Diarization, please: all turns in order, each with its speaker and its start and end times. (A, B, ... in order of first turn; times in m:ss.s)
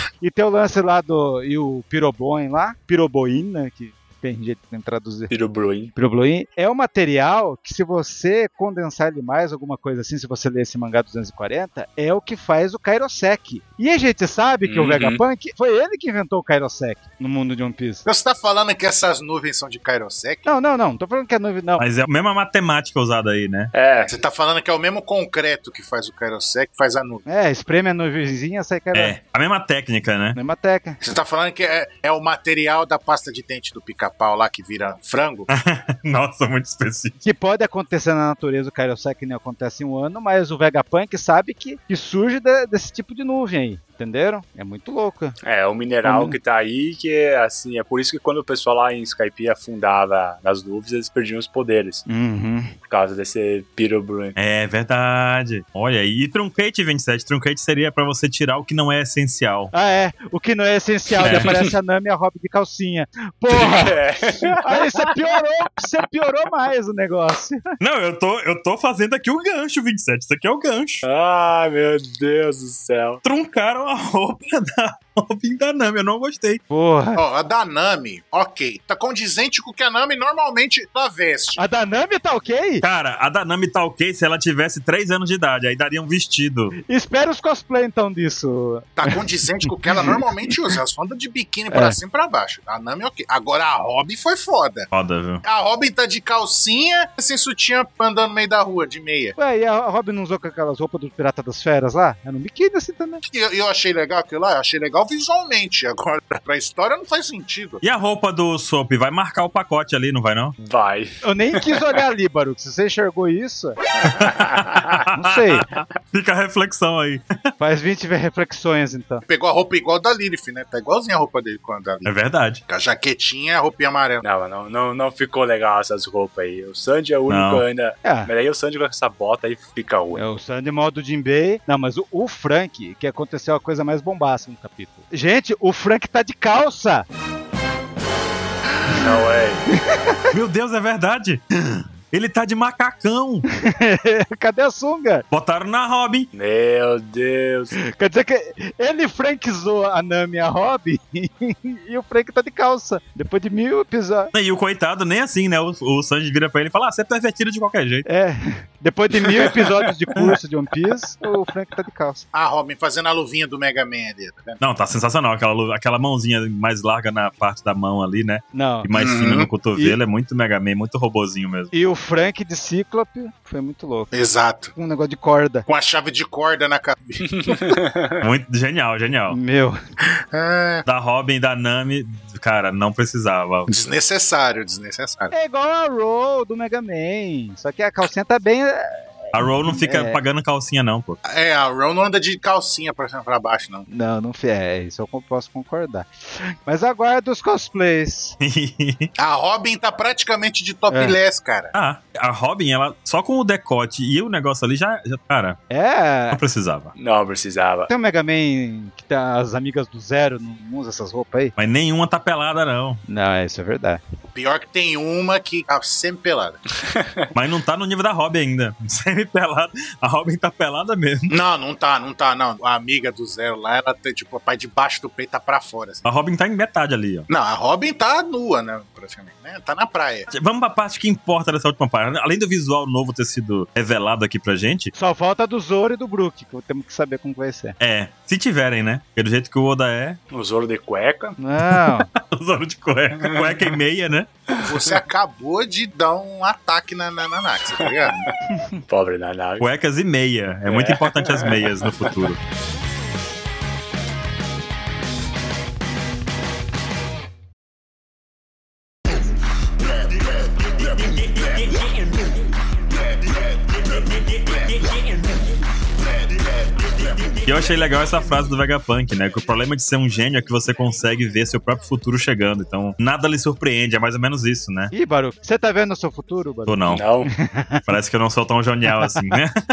0:00.2-0:05.3 A
0:05.3-0:05.9 B
0:05.9-0:18.0 A
0:14.6-0:15.2 B
0:18.0-0:20.5 C
0:20.4-0:21.8 A
0:21.8-0:23.7 D
0:23.7-0:24.1 B
0:24.1-0:27.2 C
0:27.3-0:29.1 A
0:28.9-0:30.4 D
0:30.3-0:31.0 A
0:31.0-0:35.5 C
0:35.5-0:37.2 D
0:37.2-0:45.4 A
0:45.4-0:52.0 B
0:46.0-0:46.4 A
0:52.1-0:52.7 A
0:52.9-0:54.4 B
0:54.4-0:59.7 D
0:59.7-1:07.6 A
1:01.2-1:01.5 D
1:01.2-1:01.7 B
1:03.5-1:05.2 B
1:07.8-1:11.0 D
1:11.0-1:13.2 B
1:13.2-1:16.6 D
1:16.7-1:17.2 A
1:17.2-1:21.6 C
1:21.6-1:22.8 A
1:22.8-1:26.7 D
1:26.9-1:29.1 A
1:29.0-1:34.9 C
1:29.9-1:30.2 A
1:31.7-1:32.0 A
1:34.9-1:35.4 D
1:35.4-1:39.4 C
1:39.4-1:43.2 A
1:43.2-1:47.8 C
1:47.8-1:50.6 D
1:50.6-1:51.8 B
1:51.2-1:53.8 A
1:54.0-1:55.0 B
1:54.1-1:57.2 D
1:55.1-1:55.7 A
1:57.6-1:59.2 A
1:59.3-2:02.1 C
2:02.0-2:02.6 D
2:02.7-2:04.2 C
2:04.2-2:10.2 B
2:07.3-2:07.6 D
2:08.0-2:08.3 A
2:10.1-2:17.0 A
2:18.9-2:19.6 B
2:19.7-2:20.3 A
2:20.3-2:23.4 D
2:23.6-2:25.2 A
2:25.3-2:26.3 D
2:26.3-2:27.7 B
2:27.8-2:34.3 A
2:34.3-2:38.0 D
2:38.0-2:42.2 A
2:42.3-2:44.6 C
2:44.6-2:51.7 D
2:48.5-2:48.9 A
2:48.9-2:49.5 C
2:51.7-2:54.1 A
2:54.1-2:54.7 C
2:54.7-2:55.6 A
2:55.7-2:57.8 C
2:57.3-2:58.2 B
2:58.2-2:59.4 D
2:59.3-2:59.8 A
3:00.1-3:00.8 C
3:00.9-3:03.7 D
3:03.7-3:05.3 C
3:05.3-3:10.2 A
3:09.3-3:11.2 D
3:11.2-3:13.9 C
3:13.9-3:18.4 A
3:18.4-3:19.1 D
3:19.2-3:21.7 C
3:20.9-3:21.2 A
3:21.7-3:25.6 D
3:25.7-3:26.4 A
3:26.3-3:26.9 D
3:27.0-3:27.9 B
3:27.9-3:31.6 A
3:31.6-3:33.0 D
3:33.1-3:34.0 A
3:34.3-3:36.6 C
3:37.3-3:41.3 D
3:41.3-3:46.0 C
3:46.0-3:47.3 D
3:47.3-3:50.3 C
3:50.3-3:54.9 D
3:54.9-3:57.8 A
3:57.8-4:00.2 D
4:00.3-4:01.4 B
4:01.4-4:02.1 A
4:01.6-4:04.3 D
4:03.2-4:03.7 B
4:04.5-4:04.9 B
4:04.6-4:08.2 C
4:07.8-4:08.3 B
4:08.5-4:08.8 A
4:08.9-4:09.6 B
4:09.6-4:12.4 D
4:10.7-4:12.3 B
4:20.9-4:22.3 D
4:23.9-4:25.3 D
4:27.4-4:34.9 D
4:34.9-4:37.9 A
4:36.6-4:37.0 D
4:36.9-4:37.3 B
4:37.9-4:39.6 D